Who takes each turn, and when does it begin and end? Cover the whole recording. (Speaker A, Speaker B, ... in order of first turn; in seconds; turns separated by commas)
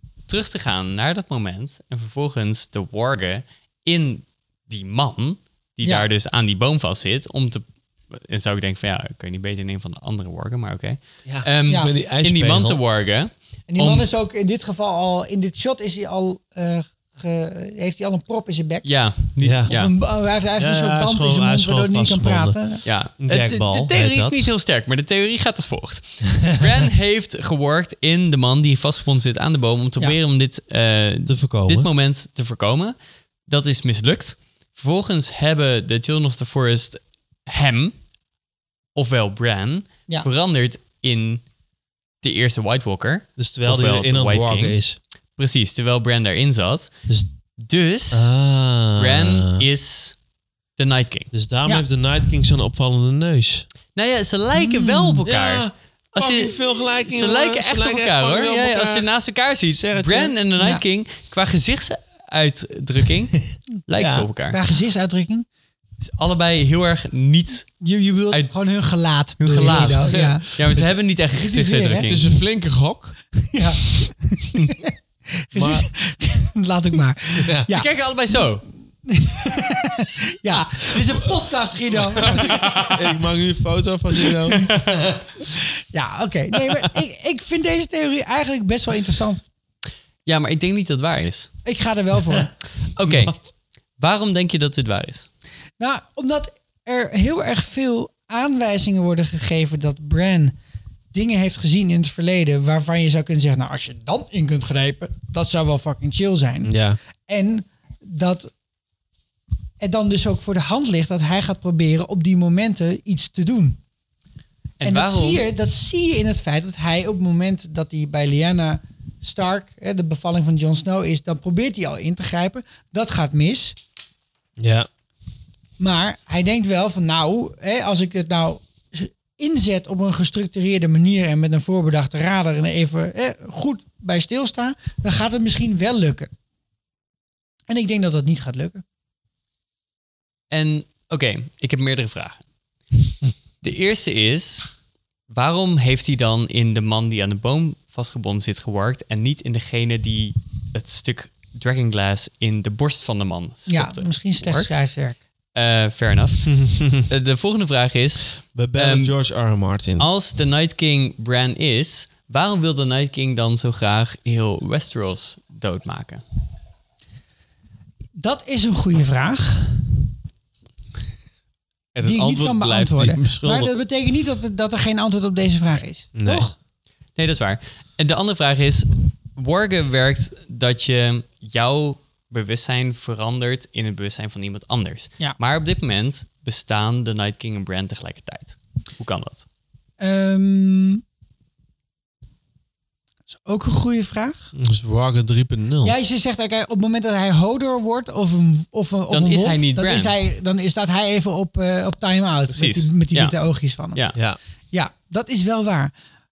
Speaker A: 0.3-14.1, Speaker B: 11.2-12.8, Speaker C: 13.7-18.9, Speaker A: 18.8-19.9, Speaker B: 19.4-19.7, Speaker C: 19.7-22.8, Speaker B: 20.6-22.6, Speaker A: 22.8-32.9, Speaker B: 23.2-24.5, Speaker B: 31.3-31.9, Speaker A: 33.5-38.0, Speaker A: 39.0-41.4, Speaker A: 42.2-44.8, Speaker B: 43.4-45.0, Speaker A: 45.4-46.9, Speaker A: 47.6-48.3, Speaker B: 48.1-49.6, Speaker A: 49.0-50.1, Speaker A: 50.8-51.3, Speaker B: 51.3-53.6, Speaker A: 54.0-63.3, Speaker C: 54.5-55.2, Speaker B: 55.2-59.1, Speaker B: 59.7-60.3, Speaker A: 63.9-64.6, Speaker B: 64.0-64.2, Speaker C: 64.5-65.4, Speaker A: 66.0-67.8, Speaker C: 67.8-72.2, Speaker A: 69.4-72.2, Speaker B: 69.7-70.4, Speaker B: 72.0-73.2, Speaker C: 73.5-74.9, Speaker C: 75.5-78.4, Speaker B: 75.5-75.9, Speaker B: 77.4-77.7, Speaker A: 77.7-78.6, Speaker C: 79.0-83.0, Speaker B: 82.0-84.9, Speaker A: 82.2-82.9, Speaker A: 84.5-84.8, Speaker C: 85.5-89.4, Speaker A: 90.2-91.5, Speaker C: 91.6-92.5, Speaker A: 92.9-93.4, Speaker B: 93.0-93.4, Speaker A: 94.0-95.3, Speaker C: 95.8-100.5, Speaker C: 101.1-106.8, Speaker B: 106.6-107.0, Speaker C: 107.3-108.5, Speaker C: 109.8-113.8, Speaker A: 114.8-115.4, Speaker C: 114.8-123.8, Speaker B: 124.6-124.9, Speaker C: 125.8-136.3, Speaker C: 137.7-138.8, Speaker A: 140.5-142.4, Speaker A: 143.6-144.7, Speaker A: 145.3-154.7, Speaker C: 153.7-155.2, Speaker A: 155.5-159.1, Speaker B: 156.4-157.1, Speaker B: 158.5-160.1, Speaker A: 160.0-166.2, Speaker C: 168.2-169.9, Speaker B: 171.9-173.7, Speaker C: 172.0-176.5, Speaker B: 176.1-176.5, Speaker A: 177.2-189.4, Speaker C: 190.0-191.0, Speaker C: 193.3-194.5, Speaker B: 194.5-195.9, Speaker C: 195.8-204.0, Speaker A: 199.1-200.1, Speaker A: 202.5-203.3, Speaker C: 204.7-205.9